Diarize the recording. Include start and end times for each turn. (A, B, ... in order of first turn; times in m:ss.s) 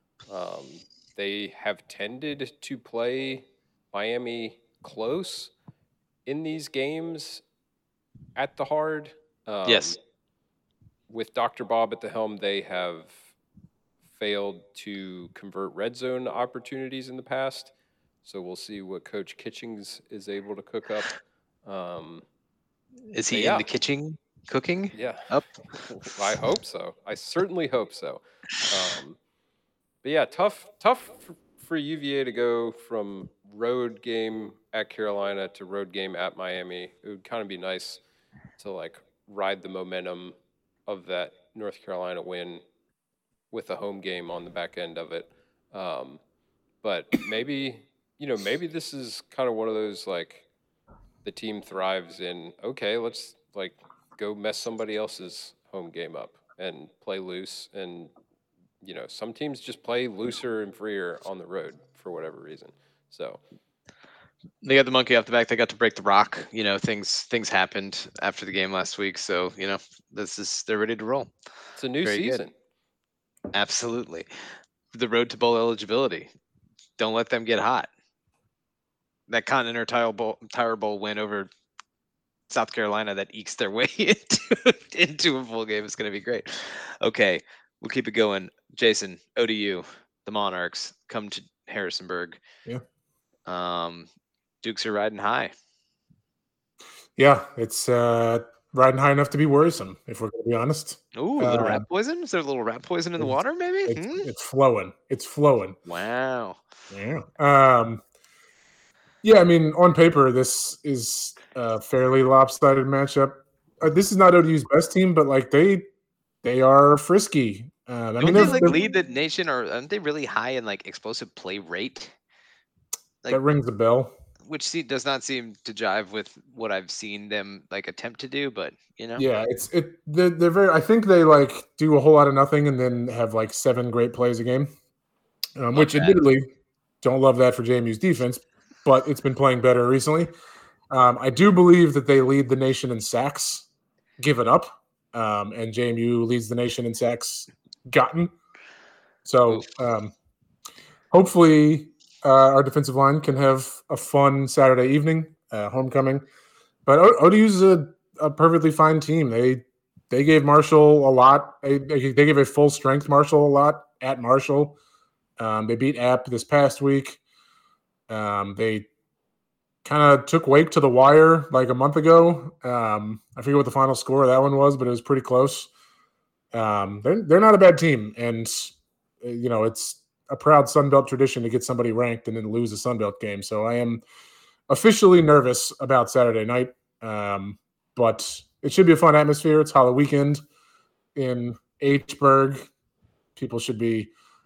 0:00.3-0:05.5 A
0:06.3-0:07.4 A
0:08.4-0:10.0 A
0:09.7-0:10.0 B
0:11.1-0:13.2 A
0:14.2-0:17.7 A
0:18.2-0:22.2 A
0:23.1-0:25.5 B
0:23.3-0:23.6 A
0:24.9-0:25.3 A
0:25.8-0:29.2 A
0:30.0-0:38.0 A
0:38.6-0:40.4 A
0:40.9-0:42.6 A
0:43.5-0:46.2 A
0:46.8-0:50.4 A
0:51.2-0:58.1 A
0:58.8-1:03.4 A
1:04.6-1:11.3 B
1:11.8-1:12.5 A
1:12.0-1:12.4 B
1:13.5-1:14.3 B
1:14.9-1:16.3 B
1:17.0-1:17.9 B
1:19.3-1:21.5 B
1:22.5-1:32.4 B
1:33.5-1:34.1 B
1:34.6-1:35.5 B
1:37.2-1:41.8 C
1:41.2-1:44.3 B
1:43.9-1:45.8 C
1:45.9-1:46.6 B
1:46.9-1:48.0 C
1:49.2-1:55.9 C
1:56.4-1:58.8 C
1:58.2-2:02.1 B
2:03.3-2:04.1 C
2:04.5-2:09.3 B
2:09.2-2:14.7 C
2:15.6-2:16.5 C
2:15.7-2:16.2 B
2:17.0-2:20.3 C
2:20.9-2:23.7 C
2:24.2-2:28.3 C
2:29.2-2:30.1 C
2:31.1-2:36.2 C
2:36.9-2:44.8 C
2:45.4-2:47.2 C
2:48.1-2:48.9 C
2:49.8-2:55.7 C
2:56.5-3:04.0 C
3:04.7-3:10.4 C
3:11.2-3:12.7 C
3:13.4-3:14.1 C